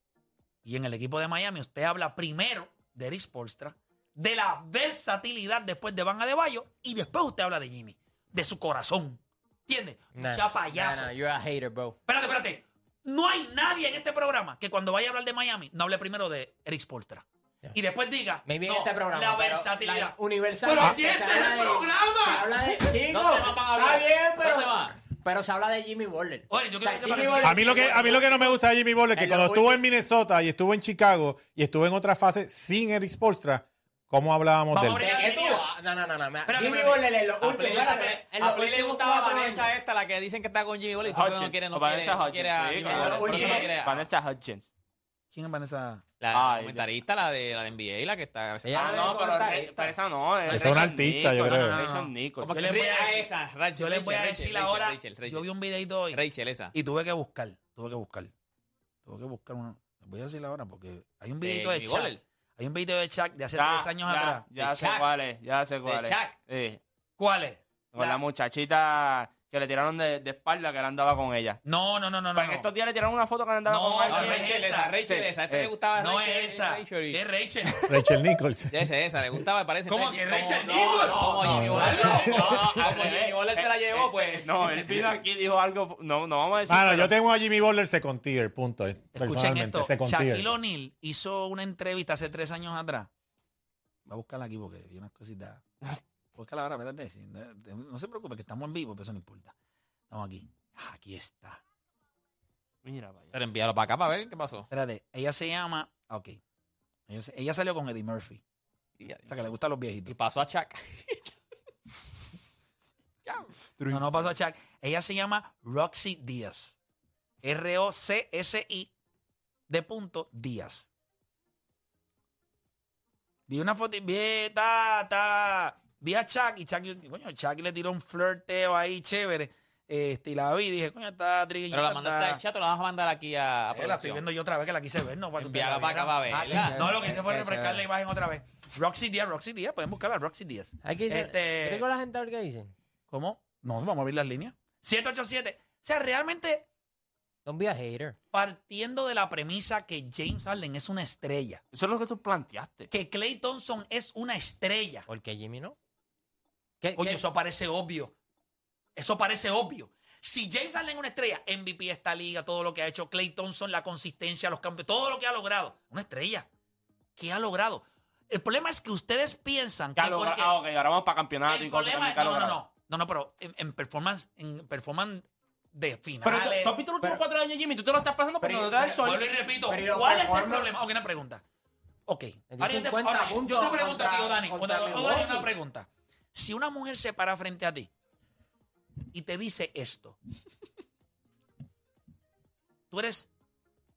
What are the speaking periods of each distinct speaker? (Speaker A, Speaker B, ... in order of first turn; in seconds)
Speaker A: 0.6-11.1, 12.1-22.5, 26.5-28.3, 34.7-35.7, 36.5-38.1, 45.3-46.0, 51.5-56.2, 56.7-58.3, 59.0-64.4, 67.2-68.2, 71.6-72.7, 73.7-75.0, 75.9-77.9, 79.9-82.6, 89.1-93.1, 94.0-95.6, 96.3-99.5, 100.1-101.6, 104.7-106.4, 107.1-108.4, 109.3-110.1, 113.9-116.8, 117.4-118.9, 119.7-120.9, 123.5-132.4, 133.7-141.8, 143.1-146.7, 148.3-151.6, 152.9-155.1, 157.0-158.1, 158.9-166.5, 167.2-170.6, 171.4-176.8, 179.0-181.4, 182.1-187.9, 189.1-190.2, 192.9-193.3
Speaker B: 10.1-12.0, 18.4-28.6, 29.1-29.8, 35.0-39.7, 42.8-43.7, 48.6-50.0, 136.3-137.8, 140.8-142.7, 147.4-148.2, 155.1-155.8, 156.8-157.2, 178.4-179.1, 179.7-180.7, 182.5-185.5
Speaker C: 22.9-24.9, 37.4-44.1, 46.2-49.1, 52.4-55.5, 56.1-56.7, 61.4-62.2, 64.5-65.1, 65.8-66.4, 74.1-77.2, 78.7-85.1, 103.3-104.7, 110.1-111.3, 131.7-134.2, 135.4-136.9
Speaker D: 27.4-35.3, 50.5-51.8, 77.8-78.8, 81.4-81.8, 86.7-90.5
Speaker E: 41.1-44.7, 46.3-46.9, 48.8-52.5, 63.5-66.8, 67.9-71.6, 72.3-75.8, 80.6-87.1, 102.8-103.3, 113.8-114.1, 151.7-152.9, 169.9-172.6, 176.2-179.3